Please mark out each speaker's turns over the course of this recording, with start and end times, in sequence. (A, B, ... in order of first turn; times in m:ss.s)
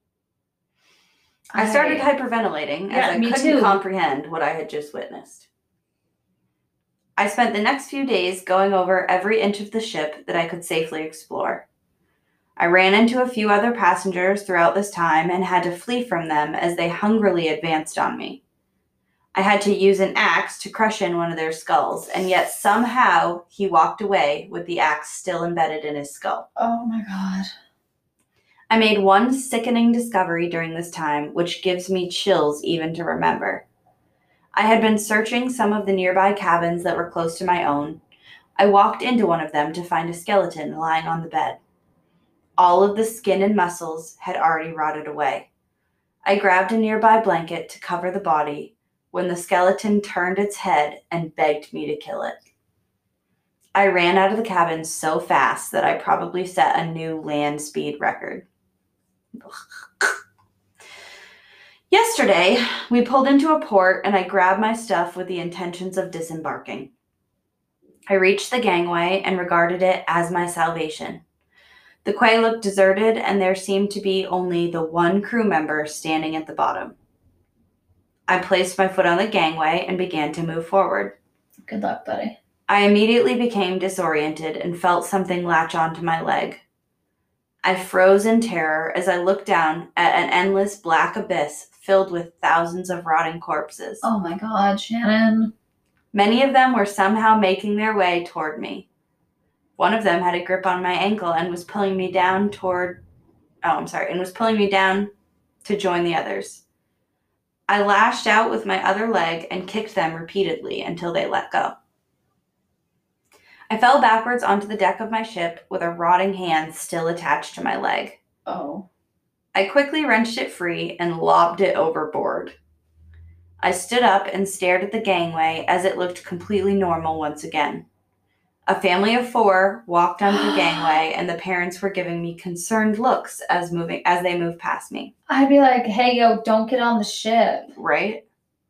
0:01.5-0:02.1 A
0:01.6-0:05.5 B
0:02.9-0:03.8 A
0:07.2-0:11.6 B
0:12.6-0:18.4 B
0:19.3-0:26.4 B
0:26.6-0:27.5 A
0:28.7-0:33.6 B
0:34.5-0:38.0 B
0:38.6-0:41.6 B
0:42.6-0:45.5 B
0:46.2-0:52.4 B
0:53.7-0:58.4 B
0:59.4-1:00.2 B
1:01.9-1:06.9 B
1:08.1-1:11.2 B
1:12.0-1:16.9 B
1:18.3-1:21.2 B
1:21.6-1:22.4 A
1:22.7-1:26.6 B
1:27.6-1:34.0 B
1:34.0-1:35.5 A
1:36.1-1:38.9 B
1:39.8-1:43.0 B
1:43.6-1:45.1 B
1:45.6-1:46.6 B
1:47.7-1:51.7 B
1:53.7-1:58.2 B
1:58.4-1:58.8 A
1:59.5-2:02.5 B
2:03.6-2:07.8 B
2:08.6-2:15.1 B
2:10.2-2:10.9 A
2:15.3-2:17.7 A
2:17.8-2:18.2 B